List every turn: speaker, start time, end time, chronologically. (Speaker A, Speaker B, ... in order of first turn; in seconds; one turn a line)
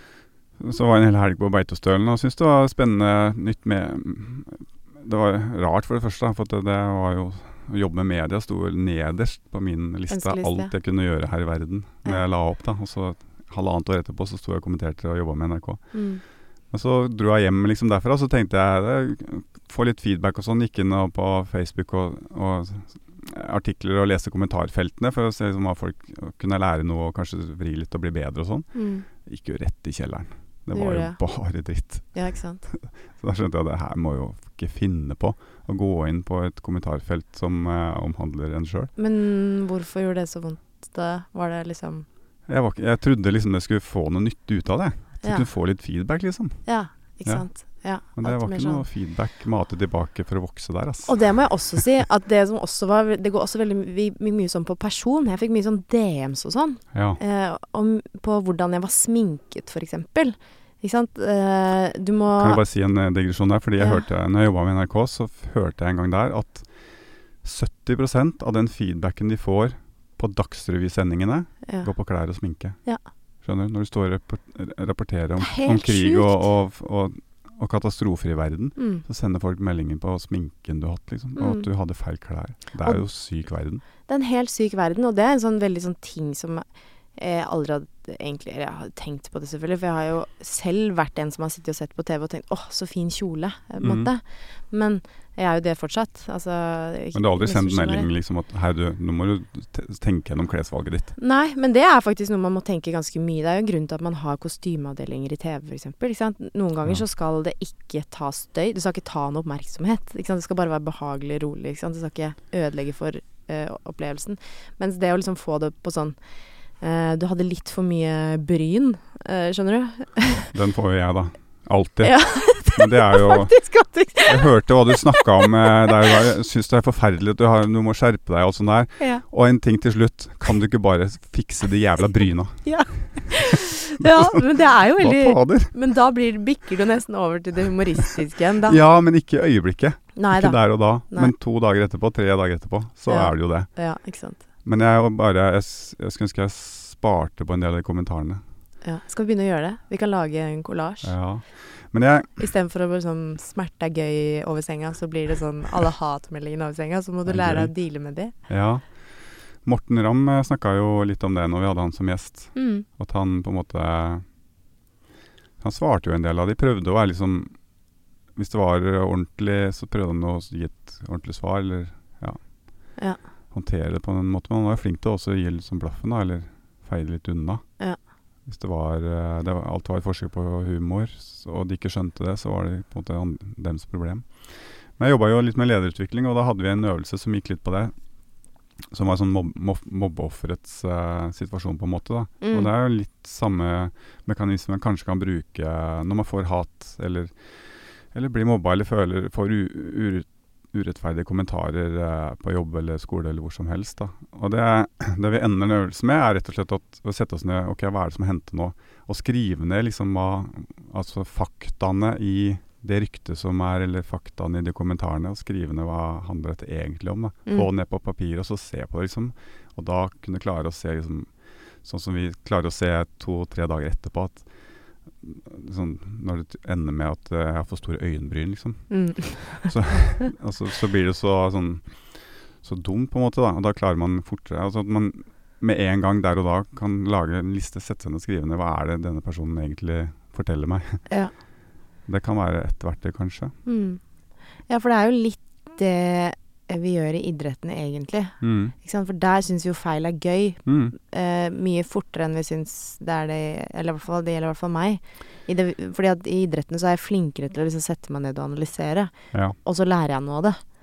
Speaker A: 0.6-15.8
Speaker B: 10.1-10.7
Speaker B: 15.9-16.2
Speaker A: 16.7-32.1
Speaker B: 28.7-29.1
Speaker B: 30.7-31.2
Speaker B: 32.1-32.7
Speaker A: 32.7-38.9
Speaker B: 39.0-42.1
Speaker A: 42.5-46.6
Speaker B: 46.7-48.8
Speaker A: 48.1-51.8
Speaker B: 51.1-62.6
Speaker A: 56.9-57.2
Speaker A: 62.3-66.7
Speaker B: 63.8-64.0
Speaker A: 67.4-72.8
Speaker A: 73.4-83.8
Speaker B: 75.4-76.5
Speaker B: 78.8-79.0
Speaker B: 81.4-81.7
Speaker B: 84.1-86.7
Speaker B: 87.2-98.1
Speaker A: 93.8-94.1
Speaker A: 97.2-101.2
Speaker B: 101.2-116.2
Speaker B: 116.8-120.5
Speaker A: 120.5-123.5
Speaker B: 122.0-125.9
Speaker A: 124.3-132.7
Speaker B: 129.0-129.2
Speaker B: 132.7-138.8
Speaker A: 134.0-134.4
Speaker A: 135.0-135.7
Speaker A: 138.6-143.7
Speaker B: 140.2-141.3
Speaker B: 143.1-144.4
Speaker A: 144.6-148.4
Speaker B: 148.8-151.2
Speaker A: 151.0-152.4
Speaker B: 152.4-158.3
Speaker A: 157.3-157.7
Speaker A: 158.5-158.9
Speaker A: 159.6-164.2
Speaker B: 162.6-162.9
Speaker A: 165.6-167.5
Speaker A: 168.4-172.4
Speaker A: 173.5-177.7
Speaker A: 178.5-187.9
Speaker A: 188.9-197.3
Speaker B: 192.4-192.7
Speaker A: 198.1-221.3
Speaker A: 221.8-224.5
Speaker A: 225.2-241.1
Speaker B: 228.9-229.7
Speaker A: 242.1-243.6
Speaker B: 243.7-244.0
Speaker B: 244.7-260.6
Speaker A: 248.4-248.7
Speaker A: 250.7-250.9